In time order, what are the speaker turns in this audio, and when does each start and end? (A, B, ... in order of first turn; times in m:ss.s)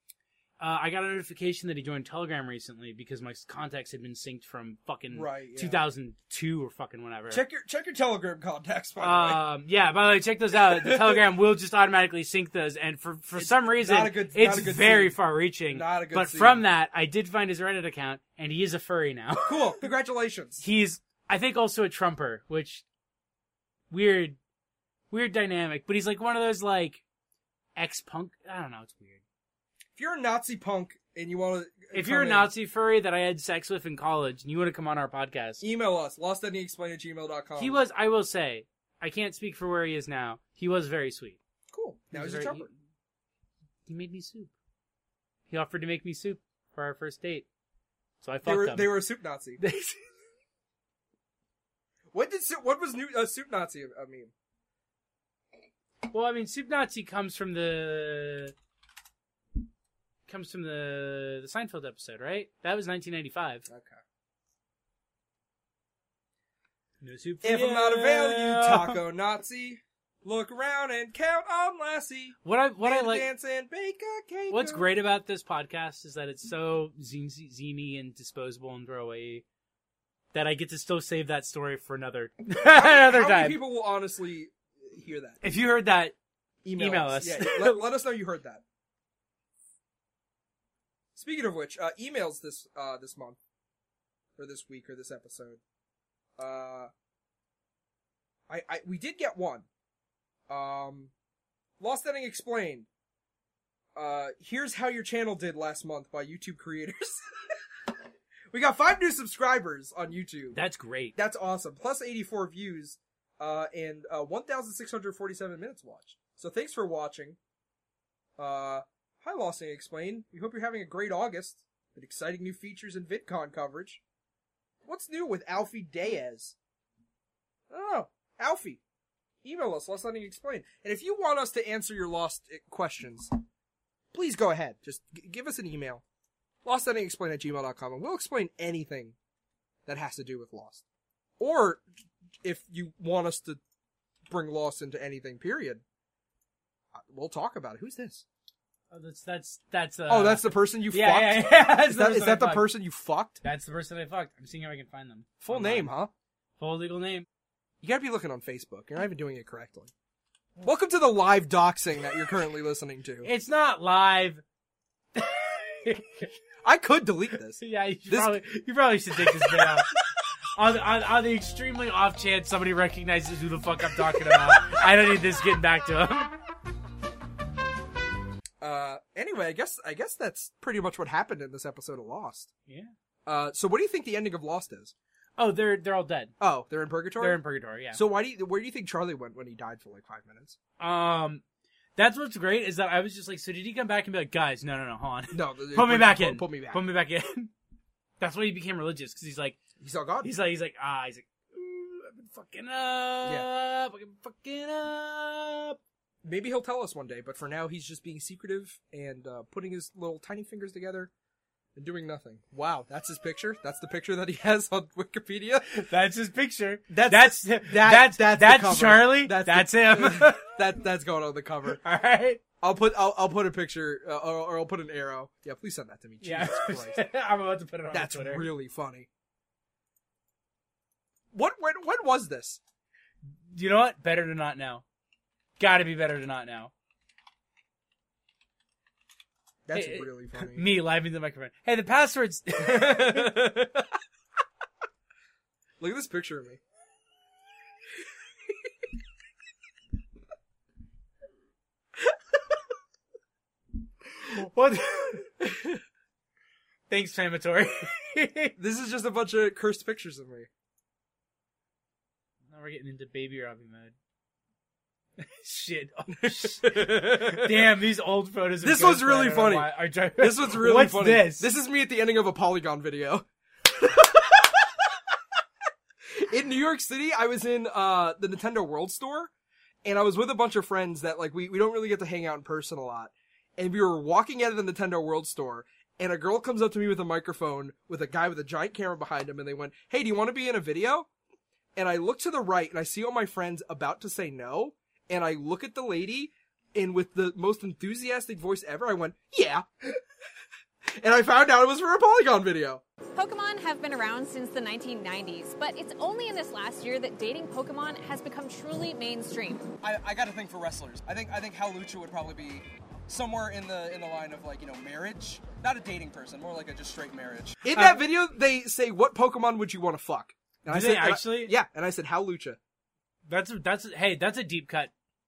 0:00.6-0:07.4 A
0:05.1-0:05.8 B
0:07.3-0:09.4 B
0:09.0-0:19.8 A
0:10.8-0:11.2 B
0:13.4-0:15.2 B
0:15.7-0:16.6 B
0:19.4-0:20.6 B
0:20.6-0:22.8 A
0:23.9-0:24.4 A
0:25.1-0:27.0 A
0:27.8-0:29.2 A
0:30.0-0:32.5 B
0:31.9-0:35.6 A
0:35.6-0:37.8 B
0:37.6-0:41.4 A
0:41.7-0:42.7 B
0:42.1-0:42.7 A
0:43.9-0:44.5 A
0:45.5-0:47.5 A
0:48.2-0:49.0 A
0:48.4-0:49.6 B
0:49.6-0:50.0 A
0:52.1-0:54.3 B
0:56.0-0:58.5 A
1:00.3-1:03.7 A
1:03.7-1:04.0 B
1:07.0-1:09.0 A
1:07.4-1:14.8 B
1:12.4-1:13.3 A
1:14.5-1:19.4 A
1:20.3-1:23.6 A
1:22.6-1:25.4 B
1:25.4-1:26.1 A
1:26.6-1:28.6 B
1:26.7-1:27.8 A
1:31.1-1:33.4 B
1:34.4-1:35.6 B
1:36.4-1:36.9 B
1:38.5-1:39.7 B
1:40.5-1:41.1 B
1:41.8-1:42.9 B
1:43.9-1:47.2 B
1:48.5-1:50.6 B
1:50.5-1:51.2 A
1:51.2-1:57.4 B
1:58.4-2:04.0 B
2:04.8-2:06.6 B
2:07.7-2:08.8 B
2:09.4-2:13.4 B
2:14.1-2:16.0 B
2:16.6-2:19.2 B
2:19.8-2:20.8 B
2:21.4-2:21.8 B
2:22.4-2:23.6 B
2:24.3-2:25.8 B
2:26.9-2:28.2 B
2:28.9-2:32.7 A
2:30.1-2:33.4 B
2:33.4-2:35.9 A
2:35.4-2:36.1 B
2:36.6-2:37.3 A
2:37.8-2:39.9 B
2:40.6-2:43.3 B
2:43.2-2:44.4 A
2:45.1-2:46.3 A
2:46.6-2:48.4 B
2:47.6-2:49.9 A
2:49.2-2:49.8 B
2:50.5-2:56.4 A
2:54.2-2:54.5 B
2:58.6-3:02.5 B
3:02.7-3:02.9 A
3:03.2-3:04.9 B
3:05.4-3:06.3 A
3:06.4-3:07.4 B
3:07.2-3:08.0 A
3:07.9-3:10.6 B
3:10.8-3:11.4 A
3:12.0-3:17.5 A
3:15.3-3:16.8 B
3:18.2-3:19.6 A
3:19.8-3:20.3 B
3:20.2-3:25.8 A
3:23.2-3:23.5 B
3:26.2-3:31.1 B
3:31.8-3:35.7 B
3:35.8-3:40.5 A
3:36.9-3:41.8 B
3:41.8-3:42.4 A
3:42.6-3:47.0 B
3:46.2-3:48.5 A
3:47.9-3:49.1 B
3:51.3-3:52.6 B
3:53.5-3:54.8 A
3:55.6-3:56.7 A
3:59.6-4:00.7 B
3:59.7-4:03.6 A
4:02.6-4:03.8 B
4:05.8-4:06.6 B
4:14.2-4:15.3 A
4:15.4-4:15.8 B
4:16.9-4:18.5 A
4:18.6-4:20.5 B
4:22.5-4:23.9 A
4:25.2-4:31.5 A
4:26.2-4:27.7 B
4:28.6-4:35.1 B
4:36.1-4:39.3 B
4:39.8-4:51.1 B
4:51.8-5:00.0 B
5:00.9-5:02.8 B
5:03.2-5:09.7 C
5:09.8-5:22.6 B
5:17.6-5:18.0 A
5:20.7-5:21.5 A
5:23.3-5:24.9 A